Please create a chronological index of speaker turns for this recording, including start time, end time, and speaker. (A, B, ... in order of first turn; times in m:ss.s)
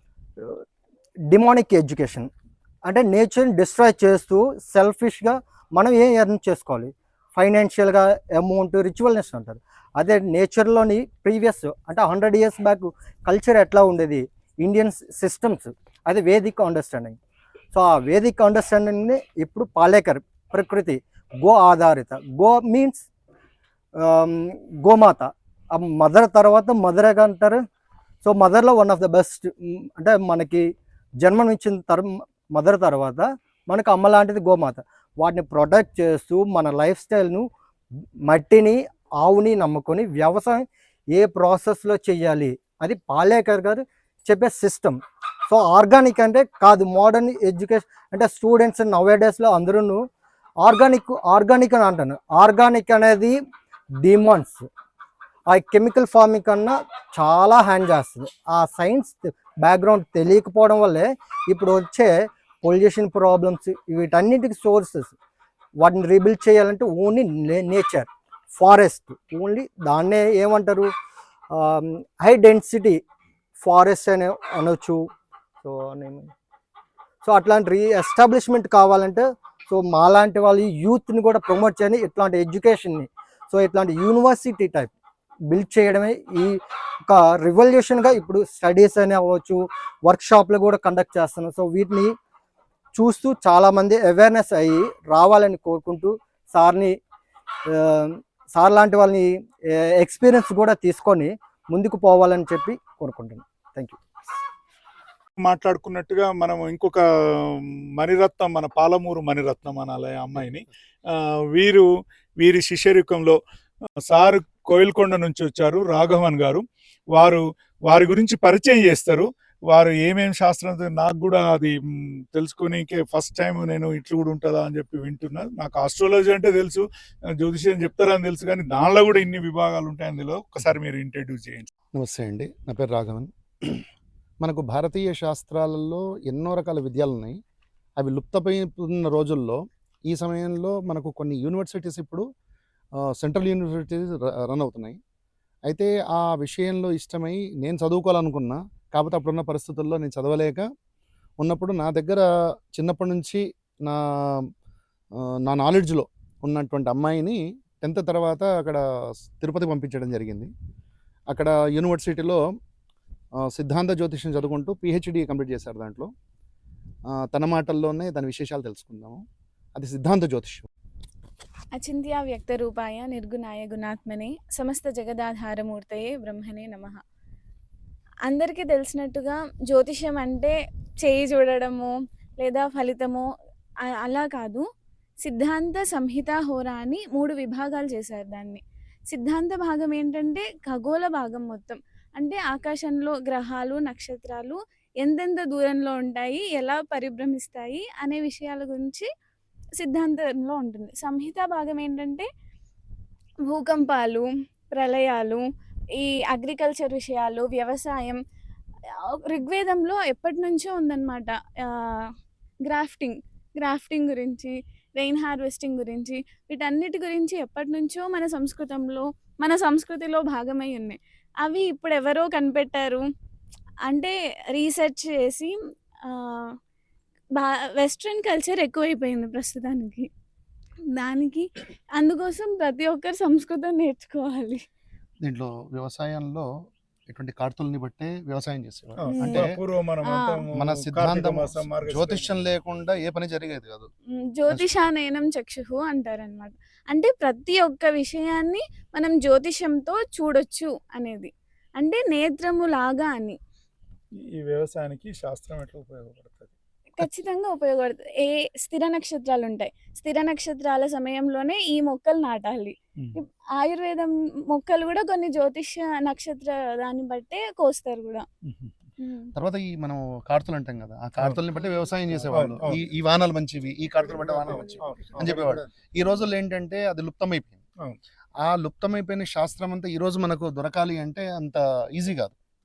0:01.3-0:02.3 A
0:02.8-0:17.2 A
0:17.7-0:23.0 A
0:24.0-0:27.6 A
0:28.2-0:30.7 A
0:31.2-0:37.5 A
0:38.3-0:40.6 A
0:41.1-0:45.0 A
0:45.5-0:50.0 A
0:50.6-0:53.4 A
0:54.0-0:54.7 A
0:55.5-1:05.1 A
1:05.8-1:10.9 A
1:11.5-1:13.0 A
1:13.6-1:15.0 A
1:15.6-1:16.3 A
1:17.2-1:24.9 A
1:25.5-1:26.6 A
1:27.1-1:32.1 A
1:32.9-1:37.0 A
1:37.7-1:44.0 A
1:45.4-1:51.9 B
1:52.4-1:53.4 B
1:54.1-2:01.8 B
2:02.3-2:06.8 B
2:07.4-2:11.7 B
2:11.9-2:13.8 C
2:14.4-2:17.4 C
2:18.0-2:22.2 C
2:23.2-2:25.0 C
2:25.7-2:30.6 C
2:31.4-2:34.4 C
2:35.4-2:38.8 C
2:39.4-2:40.5 C
2:41.3-2:42.4 C
2:43.5-2:46.1 C
2:47.2-2:49.2 C
2:49.8-2:50.7 C
2:51.8-2:57.0 D
2:58.3-3:03.2 D
3:04.0-3:04.6 D
3:05.2-3:19.1 D
3:19.8-3:22.3 D
3:23.5-3:25.4 D
3:26.0-3:28.2 D
3:29.1-3:32.1 D
3:32.6-3:43.0 D
3:43.9-3:45.6 D
3:46.1-3:46.5 D
3:47.4-3:50.1 D
3:50.9-3:54.6 D
3:55.2-3:56.5 C
3:57.1-3:59.6 C
3:59.0-4:02.3 B
3:59.1-3:59.5 D
4:00.0-4:00.4 D
4:00.5-4:03.9 C
4:04.3-4:13.4 D
4:14.3-4:17.1 B
4:16.9-4:28.2 D
4:28.4-4:28.7 B
4:29.0-4:29.3 D
4:29.4-4:37.6 C
4:31.2-4:31.4 B
4:32.3-4:32.8 B
4:34.5-4:35.6 B
4:38.4-4:42.3 C